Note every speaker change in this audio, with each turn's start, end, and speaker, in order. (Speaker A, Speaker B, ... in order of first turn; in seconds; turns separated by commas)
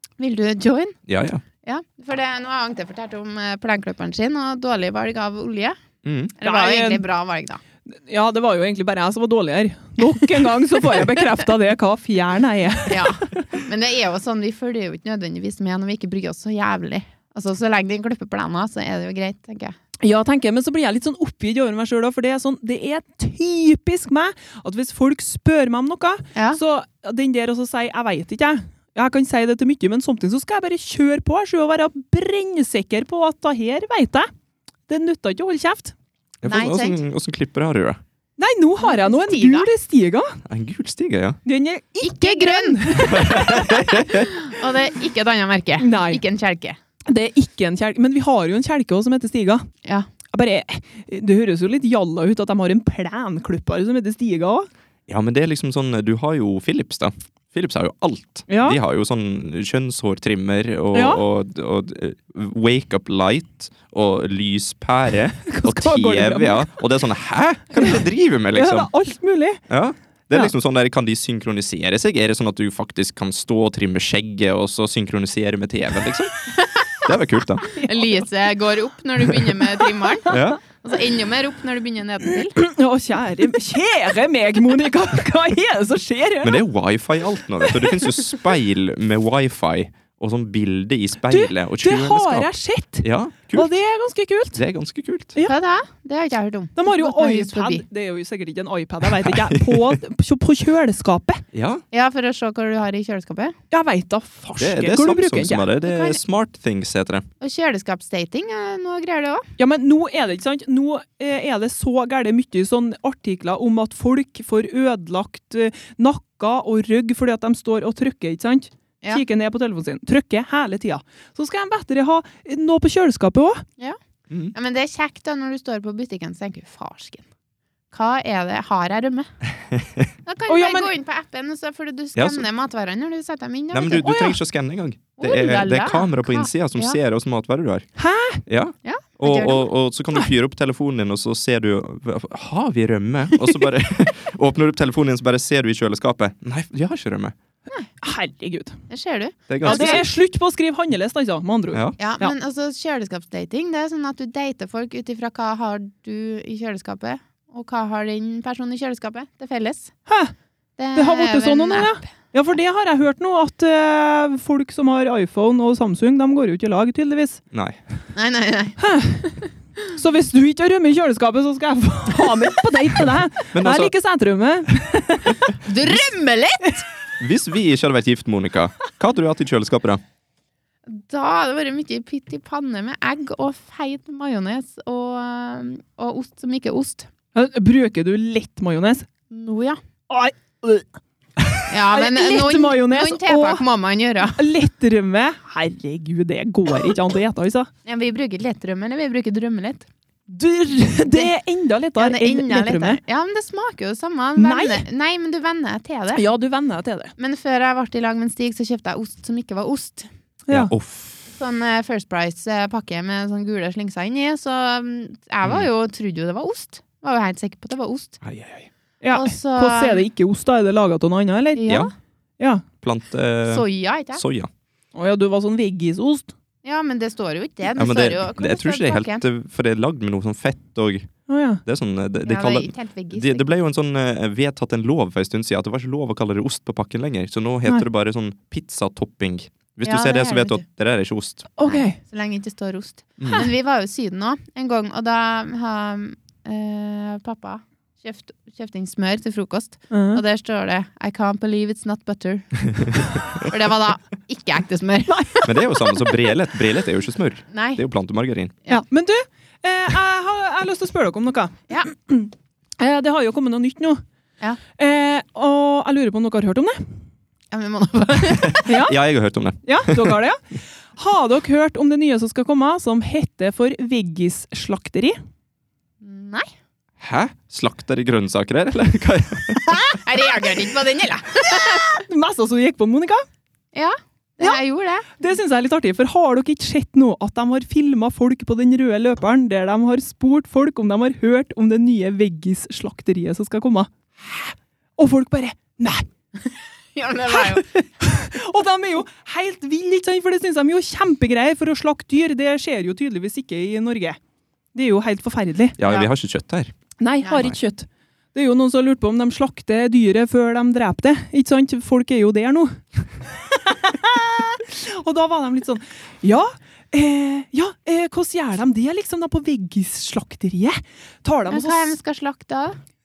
Speaker A: 0.2-1.0, Speaker B: 1.1-1.4, Speaker A: 1.6-5.8, Speaker B: 6.0-6.3, Speaker A: 6.4-7.6, Speaker C: 6.4-7.1, Speaker C: 7.9-13.4, Speaker A: 12.9-19.8, Speaker C: 20.0-34.3, Speaker C: 34.9-35.9, Speaker B: 36.4-38.0, Speaker A: 36.5-37.0, Speaker C: 38.4-40.4, Speaker A: 38.8-39.7, Speaker B: 40.5-41.4, Speaker C: 41.5-44.0, Speaker A: 42.0-46.8, Speaker B: 43.1-44.3, Speaker C: 45.8-46.2, Speaker C: 47.1-49.7, Speaker C: 50.3-54.7, Speaker B: 55.1-68.9, Speaker C: 58.5-58.8, Speaker C: 60.9-61.2, Speaker C: 65.5-66.7, Speaker C: 68.5-69.6, Speaker B: 69.7-76.3, Speaker A: 76.6-76.9, Speaker B: 77.0-77.7, Speaker A: 77.7-82.6, Speaker C: 77.7-78.3, Speaker B: 80.3-80.6, Speaker C: 82.6-86.6, Speaker B: 86.4-92.5, Speaker C: 91.3-94.6, Speaker B: 93.0-93.7, Speaker B: 94.5-95.3, Speaker A: 95.4-97.8, Speaker C: 96.8-101.4, Speaker B: 99.0-100.0, Speaker B: 101.5-101.8, Speaker A: 101.9-103.5, Speaker C: 103.7-105.7, Speaker B: 104.6-107.3, Speaker A: 105.8-106.2, Speaker A: 107.4-109.5, Speaker C: 109.6-123.7, Speaker A: 124.5-127.3, Speaker A: 127.9-129.3, Speaker B: 129.6-130.1, Speaker A: 130.2-134.1, Speaker C: 130.5-130.9, Speaker B: 132.2-132.5, Speaker B: 133.7-137.9, Speaker C: 134.0-134.4, Speaker A: 135.2-137.0, Speaker C: 138.0-138.4, Speaker B: 138.5-147.3, Speaker A: 138.8-139.7, Speaker C: 148.0-148.8, Speaker A: 148.9-150.0, Speaker B: 149.5-150.1, Speaker C: 149.6-152.3, Speaker A: 152.0-159.9, Speaker C: 160.1-160.3, Speaker A: 160.8-162.0, Speaker C: 160.9-167.4, Speaker B: 167.5-167.8, Speaker A: 168.2-168.8, Speaker C: 168.8-169.4, Speaker C: 169.9-175.6, Speaker B: 173.5-173.9, Speaker A: 175.7-176.8, Speaker B: 177.2-180.0, Speaker A: 180.9-187.1, Speaker C: 187.3-189.1, Speaker A: 189.3-189.8, Speaker C: 190.1-190.9, Speaker C: 191.4-193.7, Speaker A: 191.7-194.4, Speaker C: 194.3-197.7, Speaker A: 197.8-199.9, Speaker C: 200.3-203.0, Speaker A: 201.1-201.3, Speaker A: 202.0-206.2, Speaker C: 204.4-204.8, Speaker C: 206.1-207.1, Speaker A: 207.2-210.1, Speaker C: 210.5-210.7, Speaker B: 210.5-211.3, Speaker A: 211.3-218.2, Speaker B: 218.2-218.7, Speaker C: 219.0-221.8, Speaker A: 219.1-220.1, Speaker A: 221.6-221.9, Speaker C: 222.4-222.7, Speaker B: 222.8-224.5, Speaker A: 223.5-224.2, Speaker C: 224.9-226.3, Speaker A: 226.6-229.2, Speaker B: 227.8-231.1, Speaker C: 231.3-231.6, Speaker B: 231.7-241.5, Speaker A: 232.3-233.5, Speaker A: 239.8-240.6, Speaker C: 241.6-242.0, Speaker A: 241.7-255.5, Speaker B: 243.2-243.5, Speaker C: 249.9-250.2, Speaker B: 255.4-258.6, Speaker A: 257.5-257.8, Speaker C: 258.7-264.0, Speaker C: 264.8-266.9, Speaker A: 267.5-268.7, Speaker B: 268.4-270.2, Speaker C: 268.7-269.0, Speaker C: 269.6-275.2, Speaker A: 276.0-276.5, Speaker B: 277.0-279.8, Speaker A: 279.9-282.0, Speaker C: 281.5-283.2, Speaker A: 283.7-285.1, Speaker C: 285.2-294.4, Speaker C: 295.0-296.1, Speaker A: 296.9-297.8, Speaker C: 297.3-304.2, Speaker C: 304.7-305.8, Speaker B: 305.8-306.7, Speaker C: 307.0-322.0, Speaker A: 321.5-322.8